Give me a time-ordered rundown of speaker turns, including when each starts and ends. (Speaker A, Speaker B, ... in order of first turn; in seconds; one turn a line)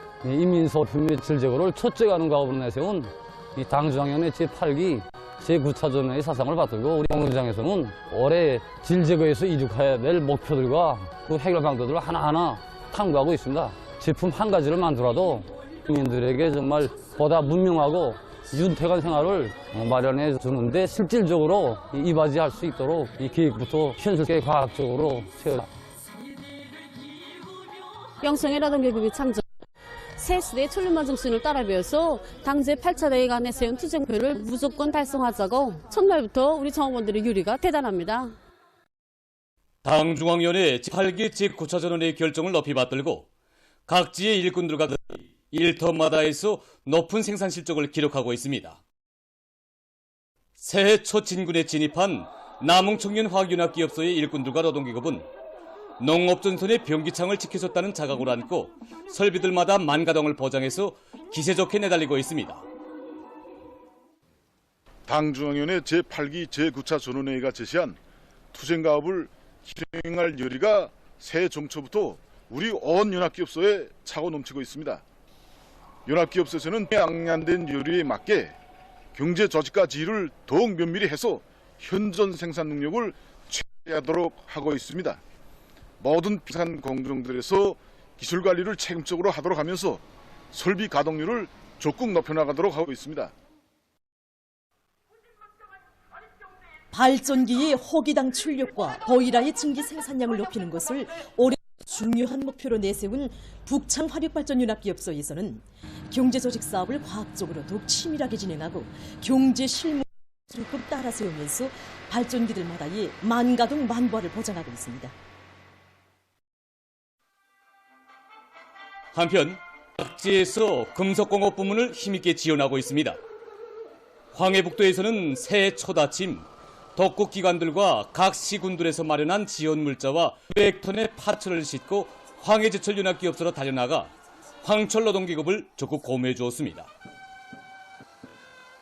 Speaker A: 0.2-25.7
Speaker B: 28.2-29.4
Speaker B: 30.2-38.3
Speaker C: 39.8-43.3
Speaker C: 43.9-48.8
Speaker C: 50.6-55.3
Speaker C: 56.0-62.6
Speaker D: 65.1-68.0
Speaker D: 68.5-75.0
Speaker D: 76.1-78.5
Speaker D: 79.1-85.2
Speaker D: 86.0-93.3
Speaker E: 96.9-115.1
Speaker C: 119.1-123.2
Speaker C: 124.3-134.1
Speaker C: 134.6-136.9